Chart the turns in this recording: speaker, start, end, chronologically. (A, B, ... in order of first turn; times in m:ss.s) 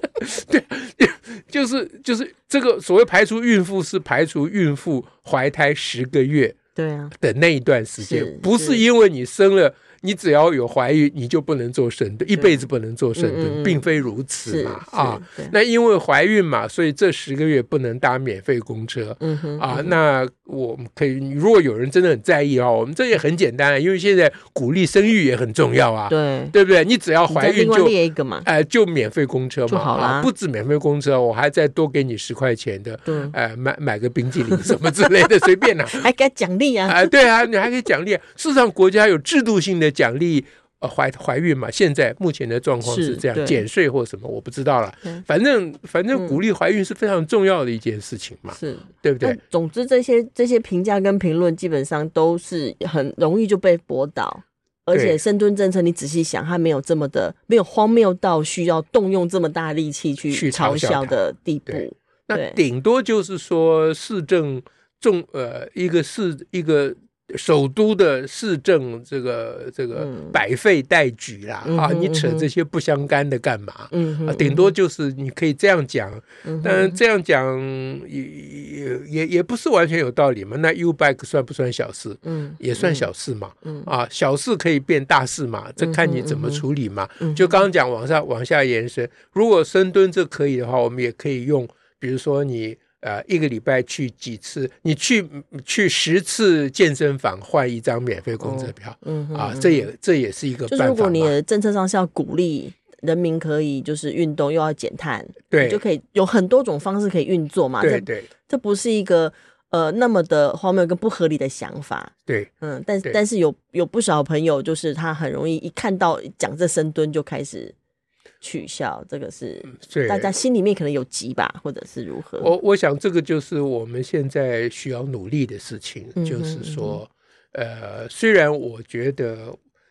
0:00.2-0:06.6 A
0:06.8-0:07.1 B
0:07.2-0:36.0 A
0:08.0-0:08.8 B
0:13.2-0:13.8 B
0:14.4-0:15.5 B
0:19.2-0:20.0 B
0:26.1-0:26.5 B
0:27.3-0:28.5 B
0:29.7-0:30.3 B
0:33.0-0:33.3 B
0:35.9-0:37.2 B
0:36.9-0:49.4 A
0:42.8-0:43.6 B
0:46.1-0:46.4 B
0:48.5-1:02.6 B
0:54.9-0:55.2 A
1:00.3-1:41.4 A
1:09.9-1:10.4 B
1:11.6-1:12.5 B
1:13.9-1:14.7 B
1:16.4-1:17.0 B
1:22.2-1:23.1 B
1:25.8-1:26.6 B
1:27.2-1:27.6 B
1:38.4-1:39.9 B
1:40.7-1:57.7 B
1:45.5-1:45.8 A
1:47.8-1:48.3 A
1:58.4-2:02.5 B
1:59.7-2:00.3 A
2:02.4-2:09.6 A
2:06.2-2:07.0 B